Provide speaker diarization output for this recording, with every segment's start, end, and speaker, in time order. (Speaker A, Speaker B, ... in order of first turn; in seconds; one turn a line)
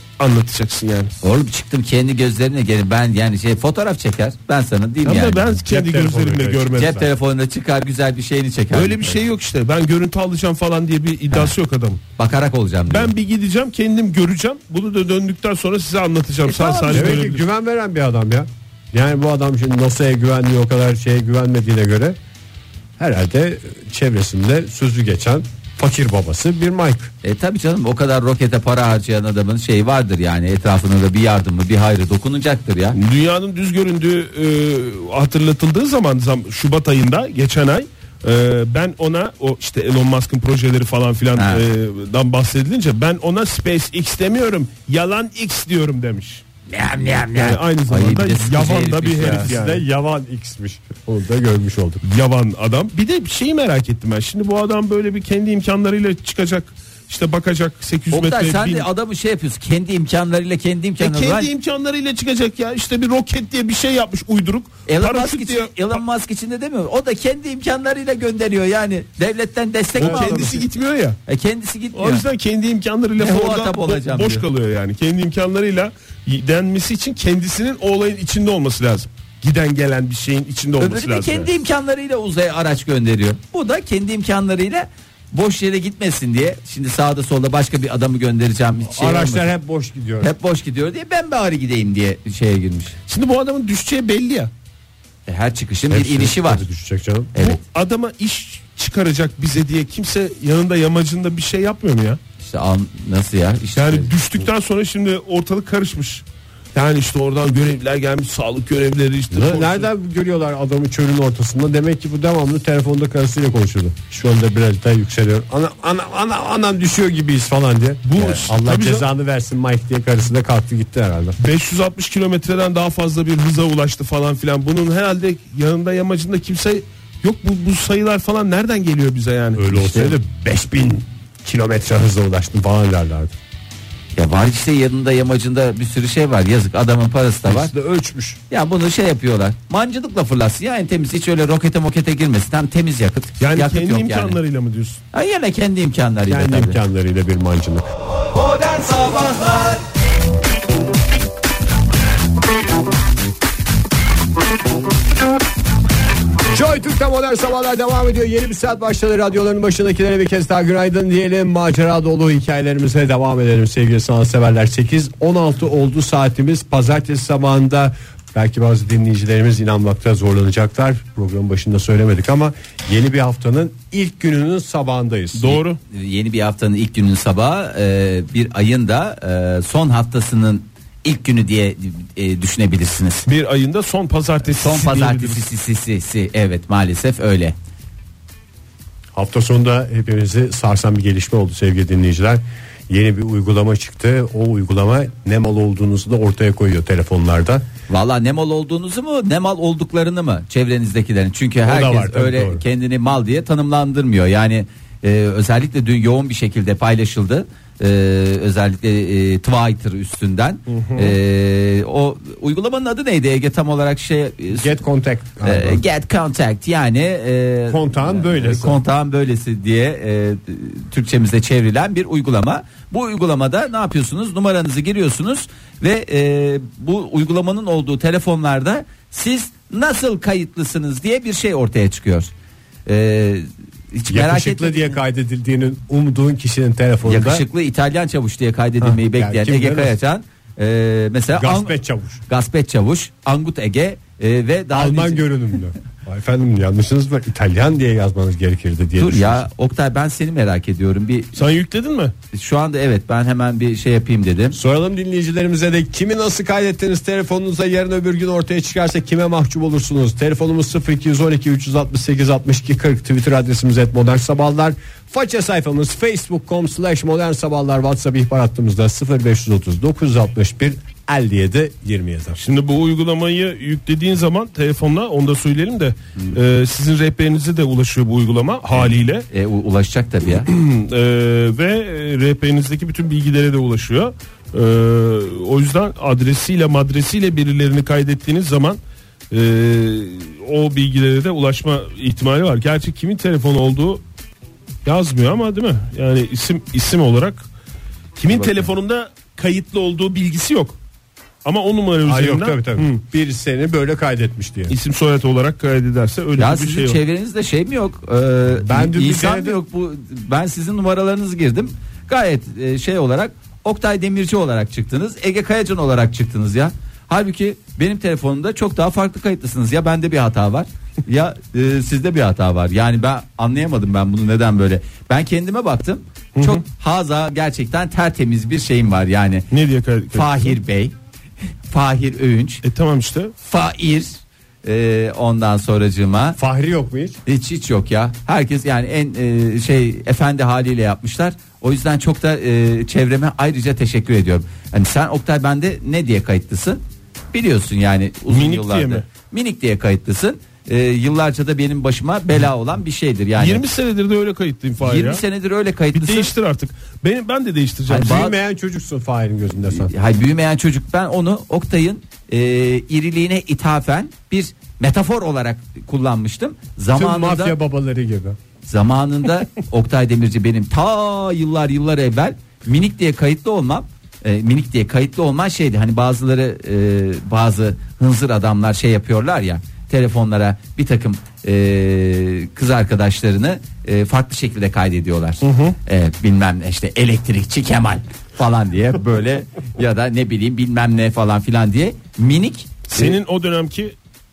Speaker A: 0.2-1.1
Speaker B: 1.2-5.5
Speaker A: 5.0-7.0
Speaker C: 5.6-7.1
Speaker B: 6.8-9.2
Speaker A: 8.7-12.0
Speaker B: 12.2-13.1
Speaker A: 12.9-17.4
Speaker B: 16.5-17.3
Speaker C: 16.9-22.2
Speaker C: 23.0-27.1
Speaker B: 27.2-33.0
Speaker A: 33.0-46.4
Speaker B: 41.4-41.6
Speaker B: 46.7-49.5
Speaker A: 47.4-49.8
Speaker C: 49.2-52.0
Speaker A: 52.0-58.9
Speaker B: 58.1-61.5
Speaker A: 61.0-66.0
Speaker B: 64.9-70.5
Speaker C: 70.0-70.7
Speaker A: 70.0-71.2
Speaker B: 71.3-72.2
Speaker A: 71.9-81.5
Speaker B: 73.2-74.5
Speaker B: 80.8-89.5
Speaker C: 88.9-90.3
Speaker B: 90.2-93.0
Speaker A: 93.1-94.5
Speaker B: 95.3-96.7
Speaker C: 95.9-97.3
Speaker B: 97.3-97.6
Speaker A: 97.4-102.2
Speaker B: 102.4-104.2
Speaker A: 103.8-109.9
Speaker C: 109.3-121.4
Speaker A: 118.1-119.1
Speaker A: 121.4-130.2
Speaker C: 129.6-133.3
Speaker B: 134.2-137.7
Speaker C: 137.5-138.4
Speaker B: 138.5-144.4
Speaker A: 143.4-145.0
Speaker B: 145.1-146.8
Speaker C: 146.3-147.8
Speaker B: 148.8-149.7
Speaker C: 156.5-175.6
Speaker A: 175.4-175.8
Speaker B: 175.9-183.3
Speaker A: 183.3-185.5
Speaker B: 184.6-187.6
Speaker C: 189.2-197.7
Speaker B: 197.9-214.8
Speaker C: 201.7-202.6
Speaker C: 210.7-211.1
Speaker C: 214.5-215.8
Speaker B: 215.4-232.3
Speaker C: 217.7-218.8
Speaker B: 232.9-235.0
Speaker C: 234.1-237.4
Speaker B: 237.1-241.8
Speaker C: 238.8-239.9
Speaker C: 241.3-242.2
Speaker B: 242.3-245.3
Speaker C: 244.7-249.5
Speaker B: 249.0-251.4
Speaker A: 251.3-252.1
Speaker B: 252.3-254.6
Speaker C: 254.5-272.4
Speaker A: 272.4-279.3
Speaker B: 278.7-280.5
Speaker A: 280.4-288.8
Speaker A: 289.3-294.0
Speaker A: 294.9-297.5
Speaker A: 298.2-300.8
Speaker B: 298.3-298.7
Speaker A: 301.4-303.0
Speaker C: 302.1-304.8
Speaker A: 304.7-307.0
Speaker B: 306.4-329.5
Speaker C: 308.6-309.6
Speaker A: 326.4-326.6
Speaker A: 329.5-330.6
Speaker B: 330.1-331.0
Speaker B: 331.7-332.6
Speaker A: 332.6-333.3
Speaker B: 333.4-336.4
Speaker C: 336.4-337.2
Speaker B: 337.3-346.8
Speaker B: 347.3-353.6
Speaker A: 348.3-349.1
Speaker A: 353.4-355.2
Speaker B: 354.8-356.3
Speaker A: 355.9-358.2
Speaker B: 357.9-358.4
Speaker C: 357.9-359.9
Speaker B: 359.7-367.6
Speaker C: 366.9-368.4
Speaker B: 368.7-392.9
Speaker A: 385.4-385.8
Speaker A: 392.9-393.9